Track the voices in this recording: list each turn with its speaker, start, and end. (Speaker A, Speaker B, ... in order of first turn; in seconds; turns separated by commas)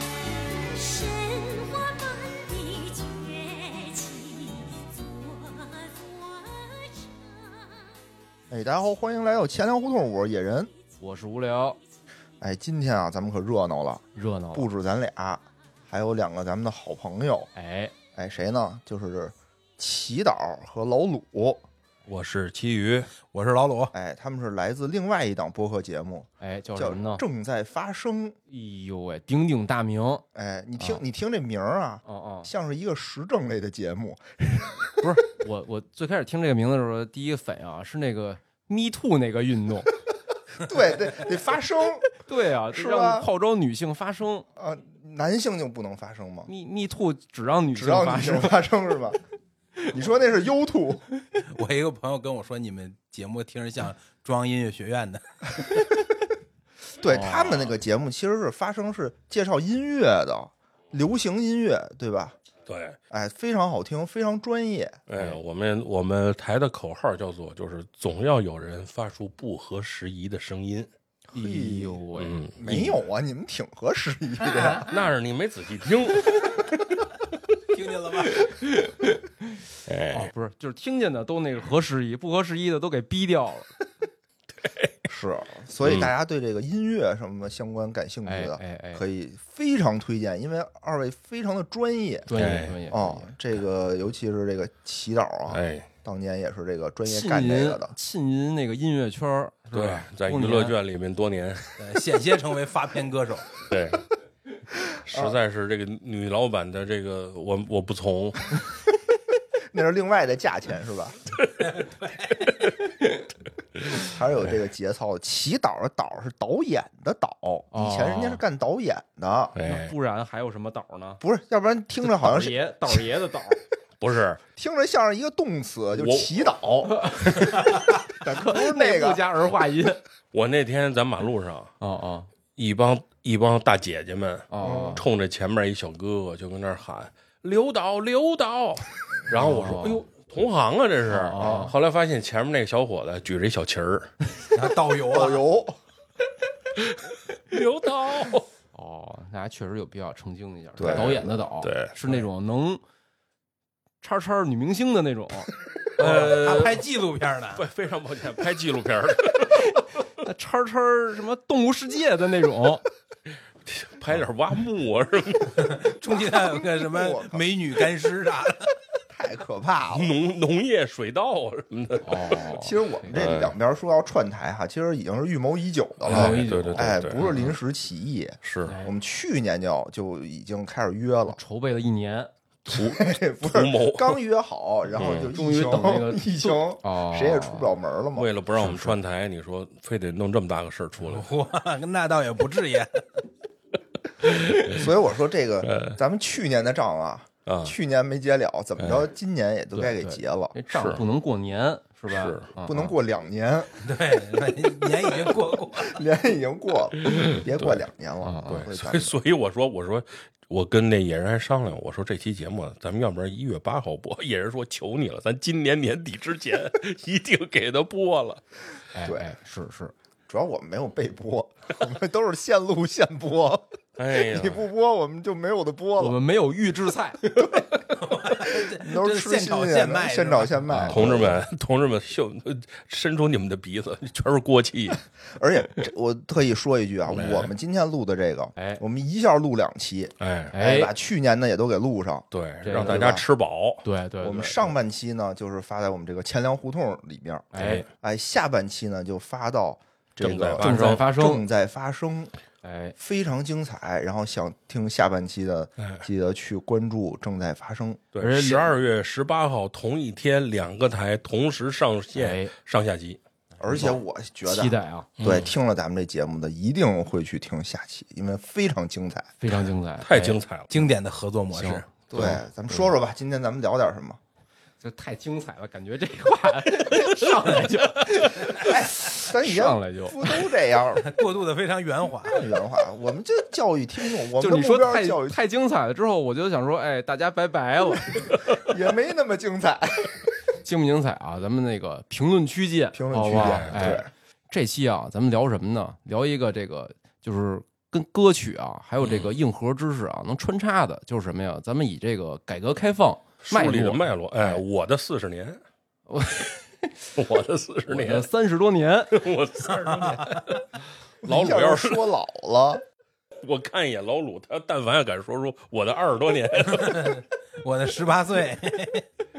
Speaker A: 0.7-7.9, Speaker B: 8.5-10.7, Speaker C: 11.0-11.8, Speaker B: 12.4-17.5, Speaker C: 14.2-14.7, Speaker C: 17.5-17.9, Speaker B: 18.1-21.6, Speaker D: 22.1-23.1, Speaker E: 23.2-23.9, Speaker B: 23.9-28.4, Speaker C: 26.4-27.2, Speaker C: 28.5-30.2, Speaker B: 30.3-34.9, Speaker C: 32.0-32.5, Speaker C: 35.0-39.9, Speaker B: 40.6-42.1, Speaker C: 42.2-44.5, Speaker B: 42.7-43.3, Speaker B: 44.6-46.5, Speaker C: 46.5-48.6, Speaker B: 47.7-49.2, Speaker B: 49.9-51.0, Speaker E: 51.5-55.7, Speaker B: 57.0-62.4, Speaker C: 57.1-57.7, Speaker D: 62.7-63.0, Speaker B: 63.1-65.0, Speaker D: 65.1-70.9, Speaker B: 71.3-72.0, Speaker C: 71.3-72.4, Speaker D: 72.2-72.9, Speaker B: 72.6-74.9, Speaker D: 74.8-76.5, Speaker E: 77.7-78.5, Speaker C: 78.6-78.9, Speaker D: 79.8-80.3, Speaker C: 80.1-83.7, Speaker B: 85.1-92.3, Speaker D: 85.8-86.1, Speaker C: 88.2-89.0, Speaker C: 92.3-93.3, Speaker D: 92.3-92.7, Speaker B: 92.9-97.9, Speaker D: 95.5-95.9, Speaker C: 97.1-100.7, Speaker D: 99.7-101.7, Speaker E: 101.8-103.6, Speaker D: 103.7-104.0, Speaker D: 105.0-108.5, Speaker B: 109.7-111.2, Speaker E: 111.7-112.5, Speaker B: 113.9-119.5, Speaker C: 117.7-118.4, Speaker D: 119.5-119.9, Speaker C: 119.6-121.2, Speaker B: 121.2-123.0, Speaker C: 122.0-123.6, Speaker D: 124.0-124.4, Speaker B: 124.6-129.2, Speaker D: 126.0-126.6, Speaker C: 127.0-130.0, Speaker D: 130.3-131.7, Speaker C: 131.8-132.3, Speaker D: 132.6-144.1, Speaker C: 134.5-135.0, Speaker B: 134.6-135.0, Speaker C: 139.3-140.0, Speaker C: 141.1-141.7, Speaker E: 144.5-145.4, Speaker B: 145.1-145.8, Speaker D: 147.5-148.4, Speaker C: 148.7-152.8, Speaker B: 150.8-151.2, Speaker D: 150.8-151.9, Speaker C: 154.0-155.5, Speaker D: 156.0-156.8, Speaker E: 156.0-157.6, Speaker D: 157.6-159.7, Speaker C: 160.2-162.8, Speaker D: 163.7-165.8, Speaker E: 165.6-168.7, Speaker B: 166.2-167.4, Speaker B: 169.1-170.1, Speaker D: 169.9-172.3, Speaker C: 172.0-173.1, Speaker B: 172.4-181.4, Speaker D: 173.1-173.5, Speaker D: 176.1-177.2, Speaker C: 176.1-177.5, Speaker D: 178.4-178.8, Speaker C: 178.6-178.9, Speaker C: 181.3-182.3, Speaker D: 182.7-184.2, Speaker B: 182.7-188.3, Speaker D: 185.0-185.3, Speaker C: 185.3-187.8, Speaker D: 188.2-191.3, Speaker C: 188.6-189.0, Speaker E: 191.1-193.1, Speaker D: 194.2-194.8, Speaker B: 194.6-200.5, Speaker D: 195.6-196.0, Speaker D: 197.4-197.7, Speaker D: 198.8-199.1, Speaker C: 199.8-202.9, Speaker D: 200.7-201.0, Speaker D: 202.1-202.4, Speaker B: 202.6-203.7, Speaker E: 203.8-206.0, Speaker B: 205.8-209.2, Speaker D: 207.1-207.8, Speaker C: 208.2-208.6, Speaker D: 208.5-218.4, Speaker C: 218.9-219.9, Speaker B: 219.0-219.3, Speaker B: 220.3-226.2, Speaker D: 224.0-224.6, Speaker C: 226.0-227.2, Speaker E: 228.0-230.6, Speaker B: 228.6-231.4, Speaker C: 230.7-231.0, Speaker D: 230.9-235.0, Speaker B: 235.3-242.3, Speaker D: 237.1-237.5, Speaker D: 240.2-240.5, Speaker C: 240.5-240.9, Speaker D: 242.3-243.8, Speaker C: 242.6-243.1, Speaker B: 242.8-243.2, Speaker C: 243.8-244.8, Speaker B: 244.2-252.3, Speaker C: 247.5-247.8, Speaker D: 247.5-247.8, Speaker D: 250.2-251.0, Speaker C: 250.6-251.4, Speaker C: 252.6-252.9, Speaker B: 253.0-258.0, Speaker D: 255.8-256.0, Speaker D: 258.1-263.2, Speaker C: 258.2-258.6, Speaker C: 262.1-262.5, Speaker B: 263.6-269.3, Speaker C: 264.4-265.1, Speaker D: 265.2-265.5, Speaker C: 269.4-270.4, Speaker D: 270.0-270.7, Speaker E: 270.7-271.9, Speaker C: 271.6-272.9, Speaker B: 272.1-274.2, Speaker C: 274.8-280.2, Speaker B: 278.6-281.1, Speaker E: 281.1-282.4, Speaker B: 282.2-285.4, Speaker C: 284.4-288.3, Speaker B: 288.6-290.2, Speaker C: 290.6-304.6, Speaker B: 292.9-294.1, Speaker D: 293.3-293.8, Speaker D: 299.0-299.3, Speaker D: 303.4-305.6, Speaker C: 306.1-307.1, Speaker D: 307.2-308.3, Speaker C: 307.9-309.1, Speaker D: 309.1-310.6, Speaker E: 309.7-310.5, Speaker D: 311.2-312.1, Speaker B: 311.2-312.8, Speaker D: 313.4-317.2, Speaker E: 316.7-319.1